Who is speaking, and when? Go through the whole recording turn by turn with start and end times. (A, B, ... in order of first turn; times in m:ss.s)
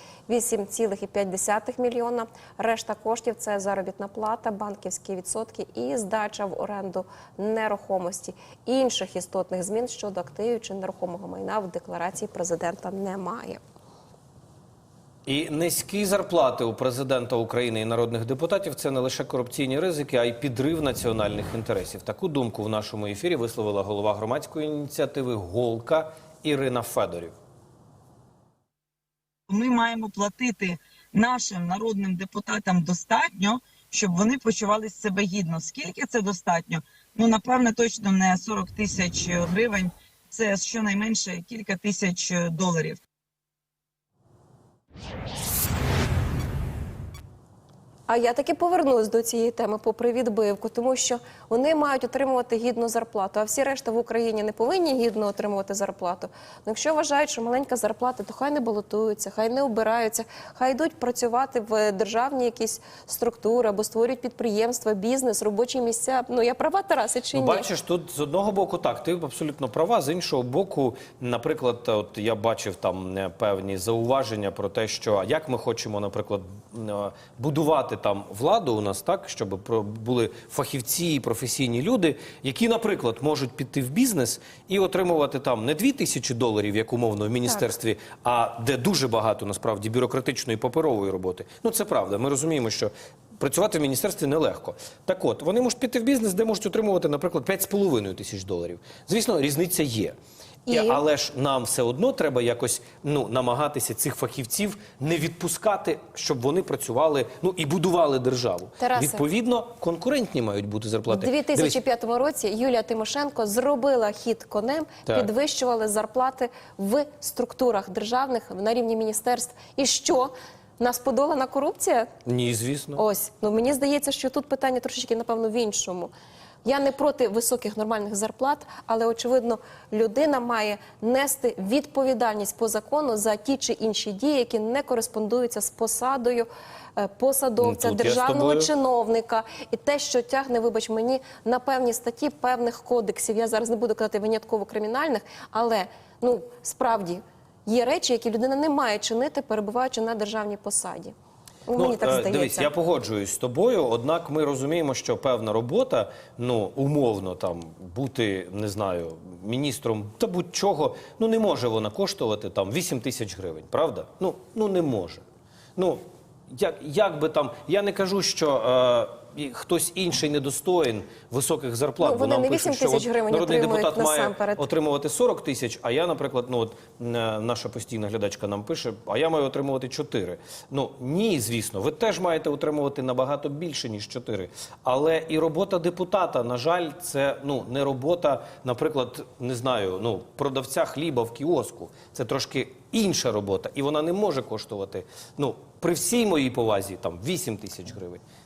0:00.3-0:13.6 A
0:15.2-0:27.3 B
0:29.5-0:43.0 C
0:48.1-1:07.7 A
1:07.3-1:40.2 B
1:40.7-1:41.0 A
1:40.7-1:51.8 B
1:48.8-1:49.2 A
1:51.1-2:02.1 A
2:02.2-2:03.0 B
2:03.0-2:06.1 A
2:06.6-2:31.1 A
2:17.6-2:18.7 B
2:31.7-2:32.7 A
2:31.7-2:45.2 B
2:45.8-3:18.2 B
2:52.0-2:54.7 A